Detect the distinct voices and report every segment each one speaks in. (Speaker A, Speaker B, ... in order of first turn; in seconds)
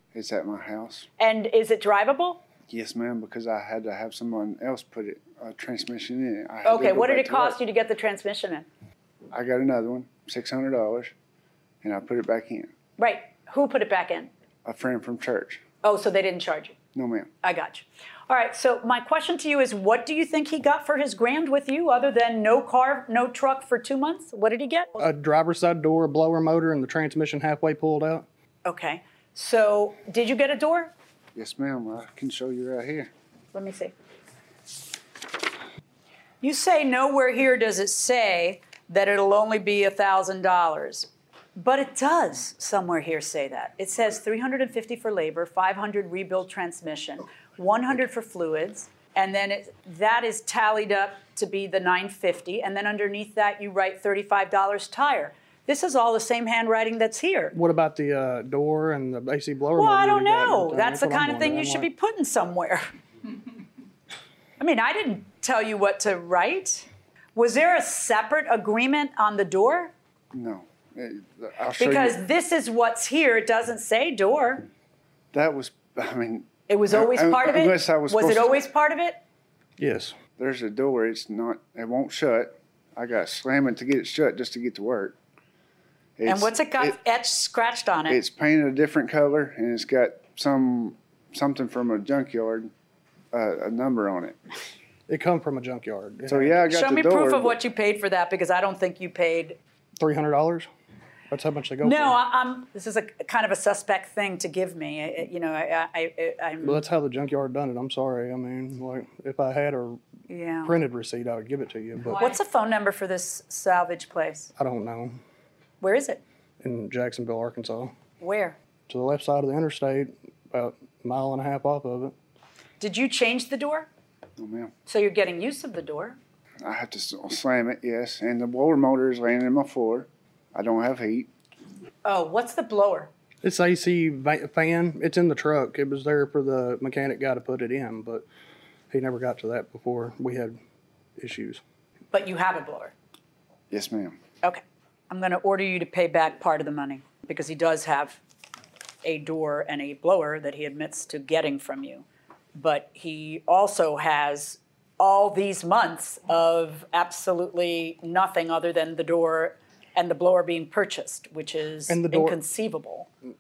Speaker A: 0.1-1.1, 2.7-7.6, 9.3-11.1, 11.8-12.7, 14.7-15.6, 16.9-17.3, 31.4-33.1, 70.3-72.2, 75.3-78.6, 80.4-85.2, 86.2-87.0, 88.1-92.7, 93.3-94.4, 96.3-97.6, 124.4-124.7, 126.6-131.3, 143.7-144.2
Speaker B: 1.2-2.4, 6.6-8.7, 13.0-14.3, 15.8-16.8, 17.4-25.0, 28.6-30.9, 33.5-33.9, 36.4-57.5, 59.8-62.9, 64.6-69.9, 71.8-74.7, 76.7-79.2, 86.3-88.2, 96.6-99.6, 101.8-106.8, 110.3-110.8, 112.1-114.5, 115.8-116.2, 118.2-118.6, 122.8-123.9, 124.9-126.2, 132.1-133.1, 142.1-142.9, 144.4-148.2, 149.0-163.1
Speaker C: 25.0-28.3, 57.5-61.9, 79.8-80.2, 95.1-96.7, 100.0-100.7, 101.3-102.2, 106.6-110.0, 110.7-112.3, 114.6-115.2, 116.6-117.9, 118.9-122.1, 133.4-138.2, 138.9-140.6, 141.2-141.6, 161.9-162.4